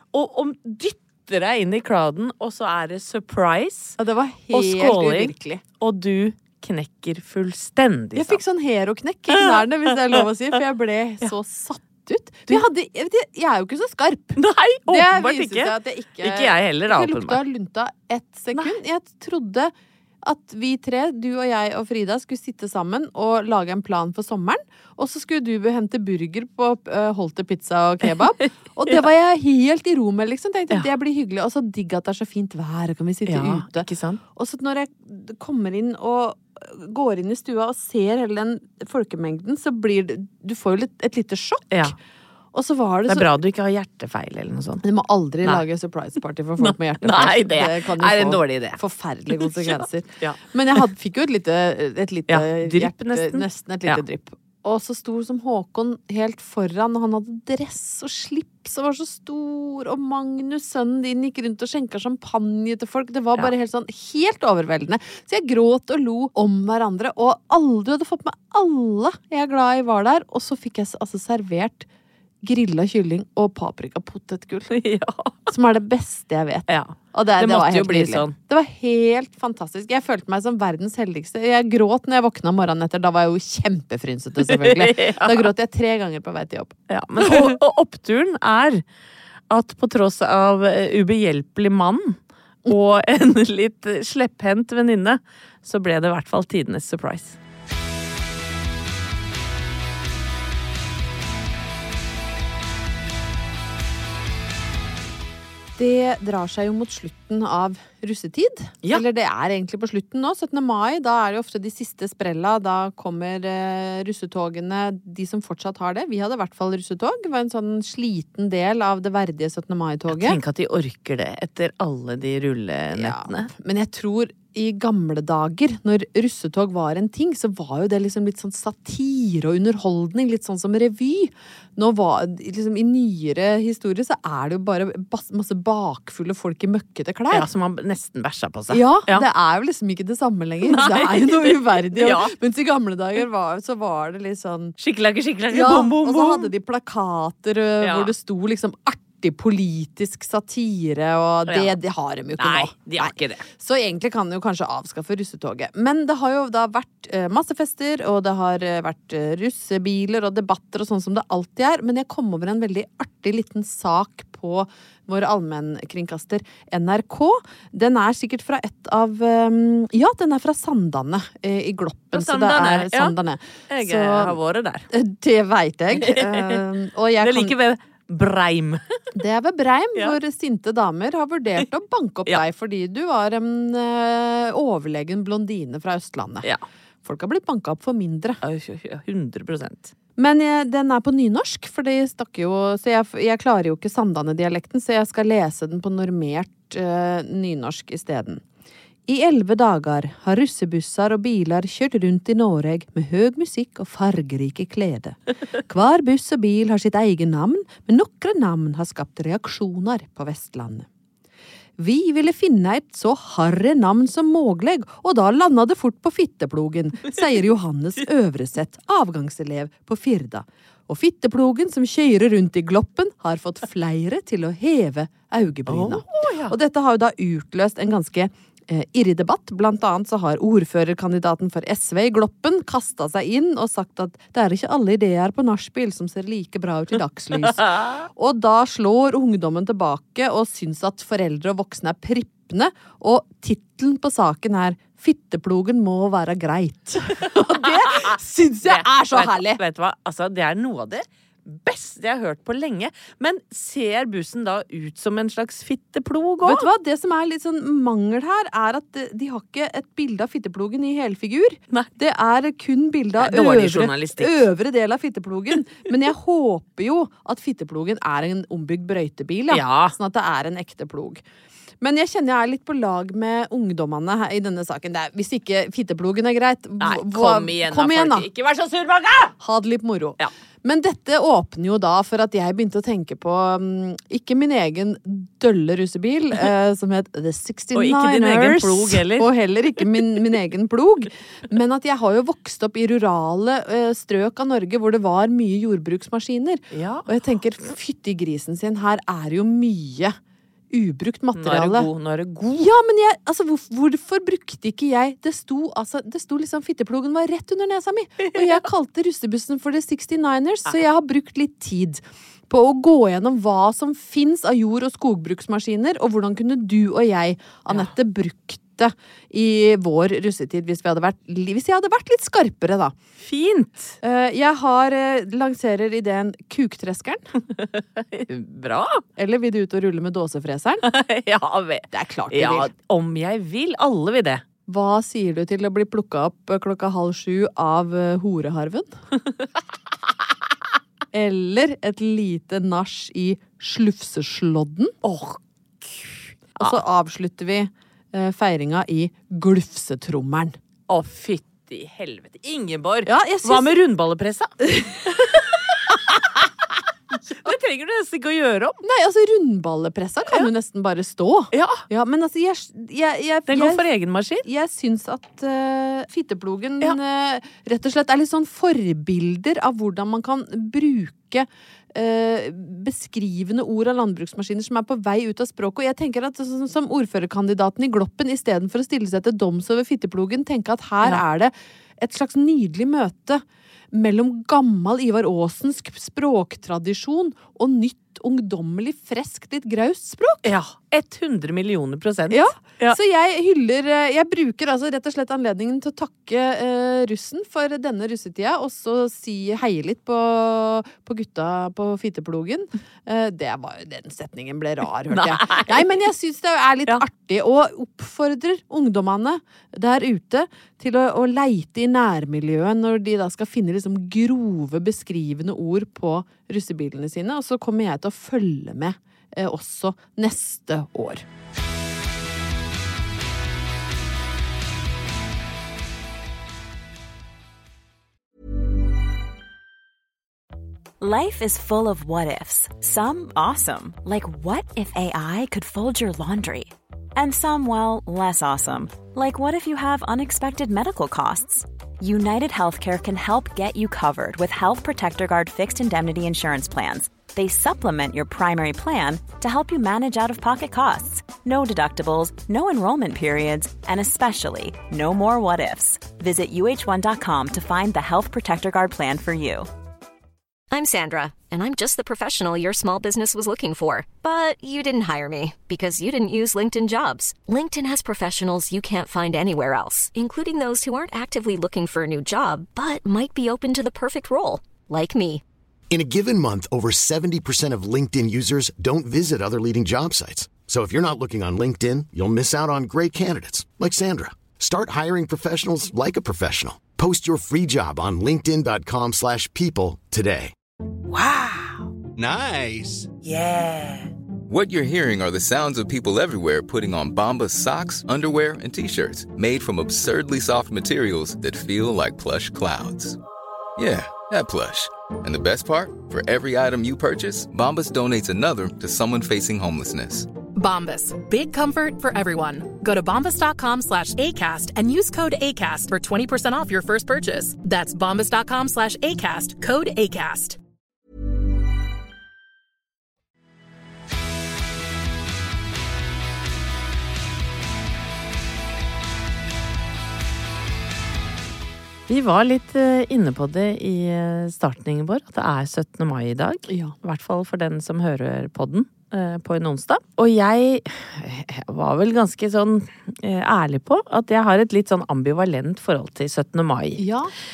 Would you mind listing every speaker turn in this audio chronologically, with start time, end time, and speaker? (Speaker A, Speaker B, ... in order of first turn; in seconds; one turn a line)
Speaker A: 0.1-4.0
Speaker B: 4.0-5.6
Speaker A: 4.5-8.4
Speaker B: 8.2-19.7
Speaker A: 9.3-10.2
Speaker A: 14.4-17.4
Speaker B: 20.2-42.0
Speaker A: 28.1-29.0
Speaker A: 33.3-34.2
Speaker A: 41.7-42.0
Speaker B: 42.5-43.3
Speaker A: 43.1-44.8
Speaker B: 44.8-71.9
Speaker A: 46.6-48.8
Speaker A: 49.4-50.8
Speaker A: 52.3-54.0
Speaker B: 72.5-74.7
Speaker A: 74.7-75.5
Speaker B: 75.5-87.5
Speaker A: 76.7-78.3
Speaker A: 84.4-85.5
Speaker A: 86.9-88.8
Speaker A: 89.5-97.4
Speaker B: 105.8-120.4
Speaker A: 120.1-123.5
Speaker B: 122.9-137.4
Speaker A: 137.3-139.3
Speaker B: 138.7-144.8
Speaker A: 140.6-142.3
Speaker A: 144.8-146.5
Speaker B: 145.5-174.4
Speaker A: 147.8-148.1
Speaker A: 151.5-151.8
Speaker A: 152.4-153.4
Speaker A: 172.1-173.2
Speaker A: 173.7-174.9
Speaker B: 174.9-177.5
Speaker A: 175.9-176.6
Speaker A: 177.2-178.8
Speaker B: 179.2-186.5
Speaker B: 187.0-188.4
Speaker A: 188.4-189.9
Speaker B: 190.2-198.4
Speaker B: 199.1-210.9
Speaker B: 211.8-249.6
Speaker A: 225.7-226.6
Speaker A: 247.6-256.7
Speaker B: 256.4-271.2
Speaker A: 263.2-264.5
Speaker A: 269.5-269.9
Speaker B: 271.8-278.2
Speaker A: 276.8-279.4
Speaker B: 279.4-300.2
Speaker A: 287.8-289.3
Speaker A: 296.7-297.1
Speaker B: 300.7-301.9
Speaker A: 301.4-302.7
Speaker B: 302.6-322.9
Speaker A: 323.2-324.0
Speaker B: 324.0-327.3
Speaker A: 327.5-329.0
Speaker B: 329.2-330.8
Speaker A: 330.8-334.4
Speaker B: 331.9-332.7
Speaker B: 334.7-338.9
Speaker B: 341.1-344.9
Speaker A: 345.0-346.8
Speaker B: 346.6-350.6
Speaker A: 350.9-356.4
Speaker B: 353.1-353.8
Speaker A: 357.3-358.8
Speaker B: 358.8-363.8
Speaker A: 361.5-361.8
Speaker A: 363.5-364.4
Speaker B: 364.4-390.5
Speaker A: 390.4-393.0
Speaker B: 392.3-421.2
Speaker A: 405.1-405.9
Speaker C: 431.0-459.7
Speaker D: 460.7-475.4
Speaker E: 475.9-490.5
Speaker F: 494.5-503.2
Speaker F: 503.8-510.3
Speaker G: 510.6-520.6
Speaker A: 532.1-547.0
Speaker B: 536.7-536.9
Speaker B: 547.0-547.3